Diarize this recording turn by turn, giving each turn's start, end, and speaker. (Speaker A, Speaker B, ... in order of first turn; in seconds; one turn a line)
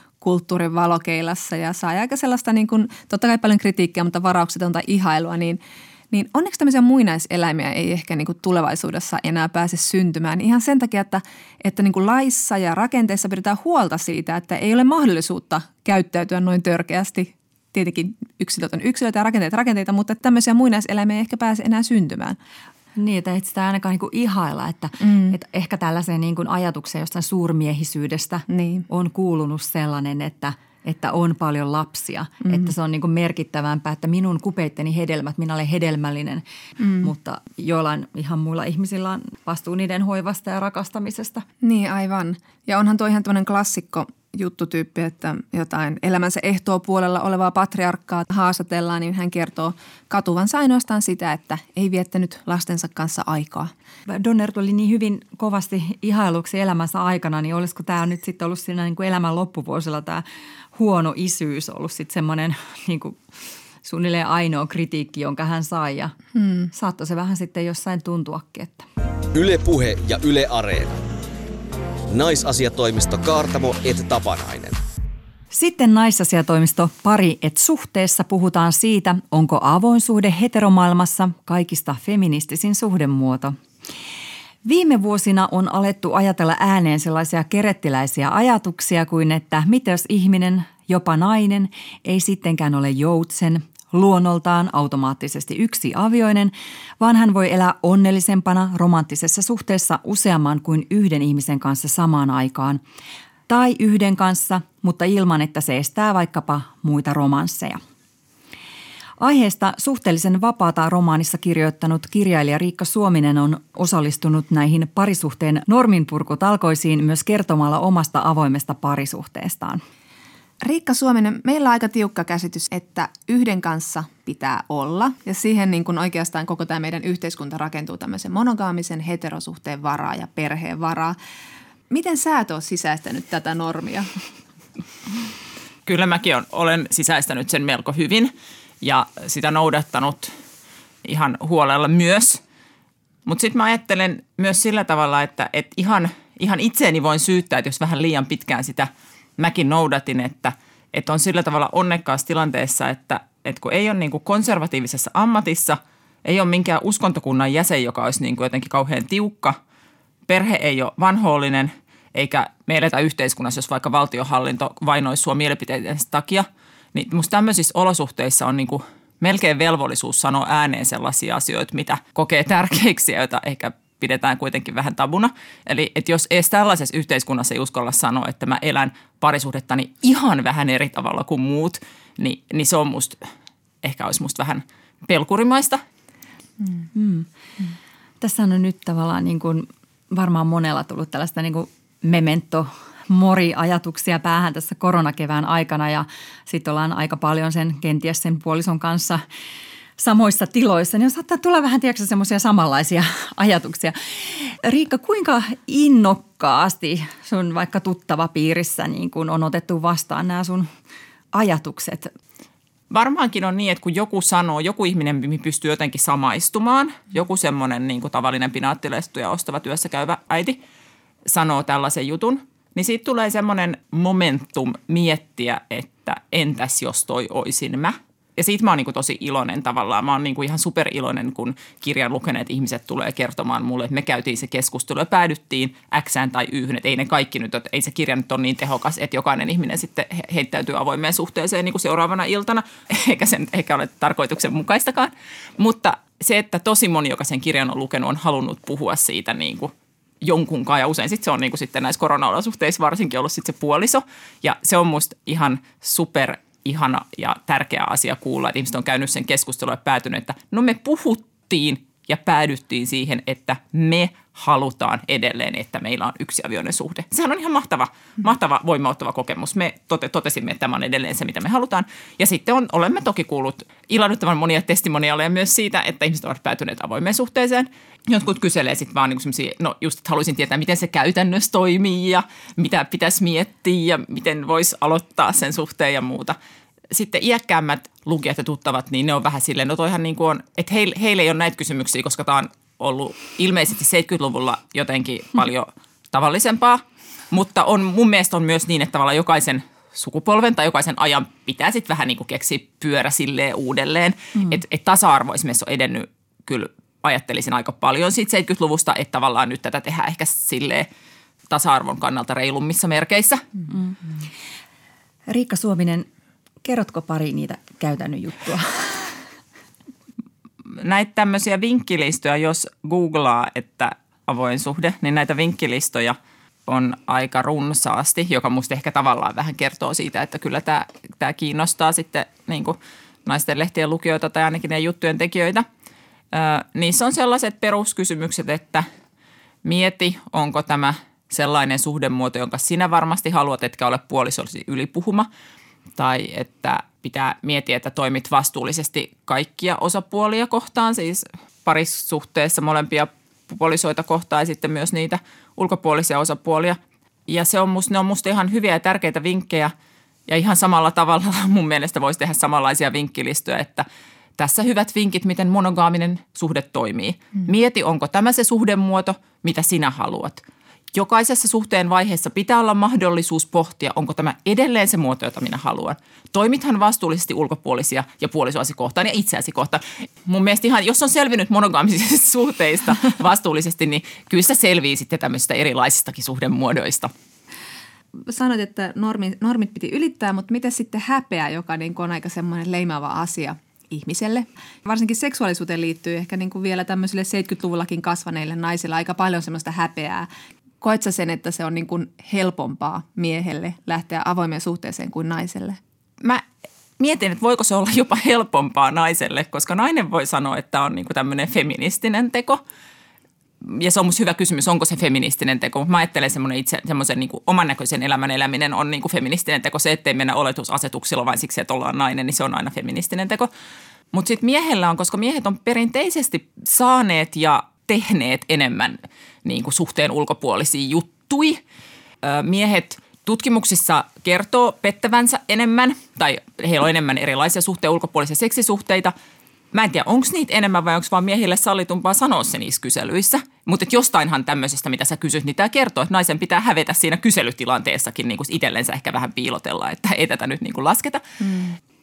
Speaker A: 0.2-5.6
Speaker A: 6.1-22.4
Speaker B: 23.0-36.4
Speaker A: 25.0-25.3
Speaker A: 28.5-28.8
Speaker A: 36.8-37.1
Speaker B: 37.0-41.4
Speaker A: 41.6-53.7
Speaker B: 54.1-60.2
Speaker B: 60.7-63.2
Speaker B: 63.8-66.1
Speaker A: 66.3-66.7
Speaker B: 66.7-68.8
Speaker C: 69.3-71.0
Speaker C: 72.1-74.8
Speaker B: 75.5-83.5
Speaker B: 84.6-102.8
Speaker B: 103.5-107.8
Speaker B: 109.2-119.8
Speaker A: 120.6-131.2
Speaker A: 131.9-134.1
Speaker D: 135.8-140.3
Speaker D: 141.0-142.4
Speaker D: 143.2-159.6
Speaker D: 160.3-183.2
Speaker D: 183.8-185.8
Speaker B: 186.9-187.3
Speaker B: 188.2-199.2
Speaker B: 200.0-210.7
Speaker B: 211.3-212.1
Speaker D: 212.9-220.6
Speaker D: 221.2-286.4
Speaker D: 286.9-310.9
Speaker D: 311.5-313.4
Speaker B: 315.3-316.1
Speaker B: 316.6-319.1
Speaker D: 320.7-335.6
Speaker D: 336.3-338.9
Speaker D: 339.6-345.3
Speaker D: 346.0-359.7
Speaker D: 360.3-387.1
Speaker A: 388.2-400.3
Speaker A: 400.8-405.8
Speaker D: 407.0-412.6
Speaker D: 413.6-423.5
Speaker D: 424.1-431.6
Speaker D: 432.2-439.1
Speaker D: 439.7-451.2
Speaker A: 451.4-451.7